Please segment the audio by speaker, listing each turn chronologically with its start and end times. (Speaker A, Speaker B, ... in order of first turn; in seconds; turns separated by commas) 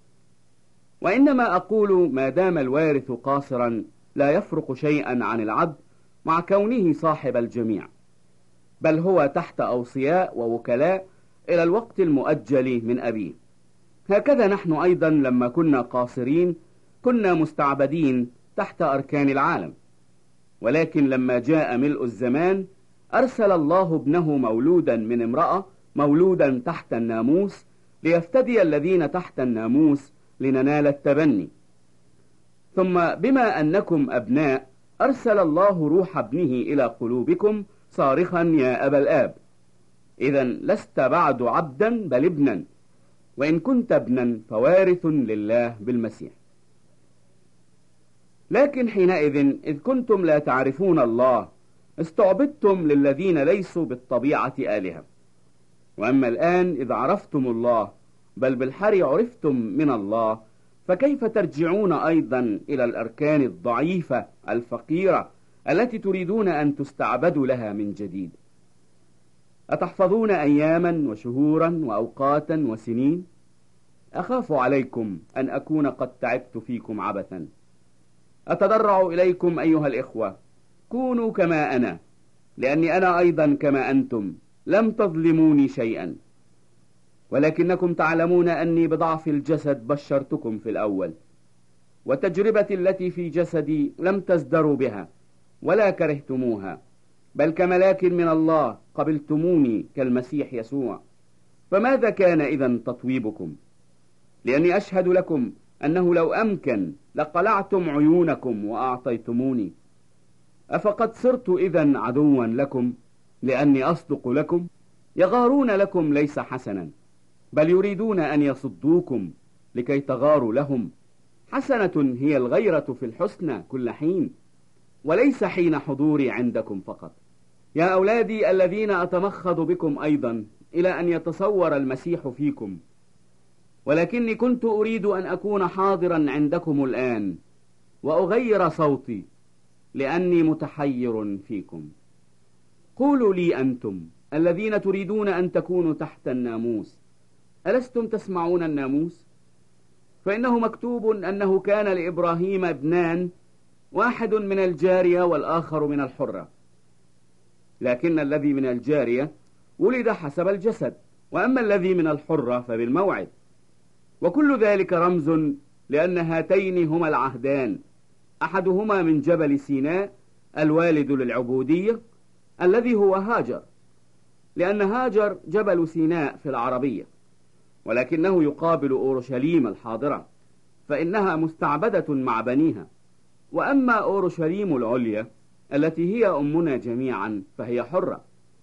Speaker A: 1.0-7.9, Speaker A: 8.8-13.3, Speaker A: 14.1-19.7, Speaker A: 20.6-31.5, Speaker A: 32.7-39.4, Speaker A: 40.2-42.6, Speaker A: 43.4-46.4, Speaker A: 48.5-55.0, Speaker A: 56.0-68.4, Speaker A: 69.7-73.2, Speaker A: 74.2-77.5, Speaker A: 78.5-80.3, Speaker A: 80.9-82.0, Speaker A: 82.6-86.2, Speaker A: 87.3-91.1, Speaker A: 92.0-95.1, Speaker A: 95.6-96.8, Speaker A: 97.4-101.0, Speaker A: 101.7-103.5, Speaker A: 104.4-109.7, Speaker A: 110.7-116.9, Speaker A: 117.5-120.9, Speaker A: 121.5-124.3, Speaker A: 125.0-127.2, Speaker A: 127.8-132.8, Speaker A: 133.8-137.4, Speaker A: 138.0-139.3, Speaker A: 139.9-141.9, Speaker A: 142.9-147.0, Speaker A: 147.7-149.2, Speaker A: 150.2-153.3, Speaker A: 153.9-156.5, Speaker A: 157.8-163.3, Speaker A: 164.2-167.8, Speaker A: 168.4-172.0, Speaker A: 172.6-173.7, Speaker A: 174.6-177.1, Speaker A: 177.8-180.2, Speaker A: 180.9-182.9, Speaker A: 183.5-188.2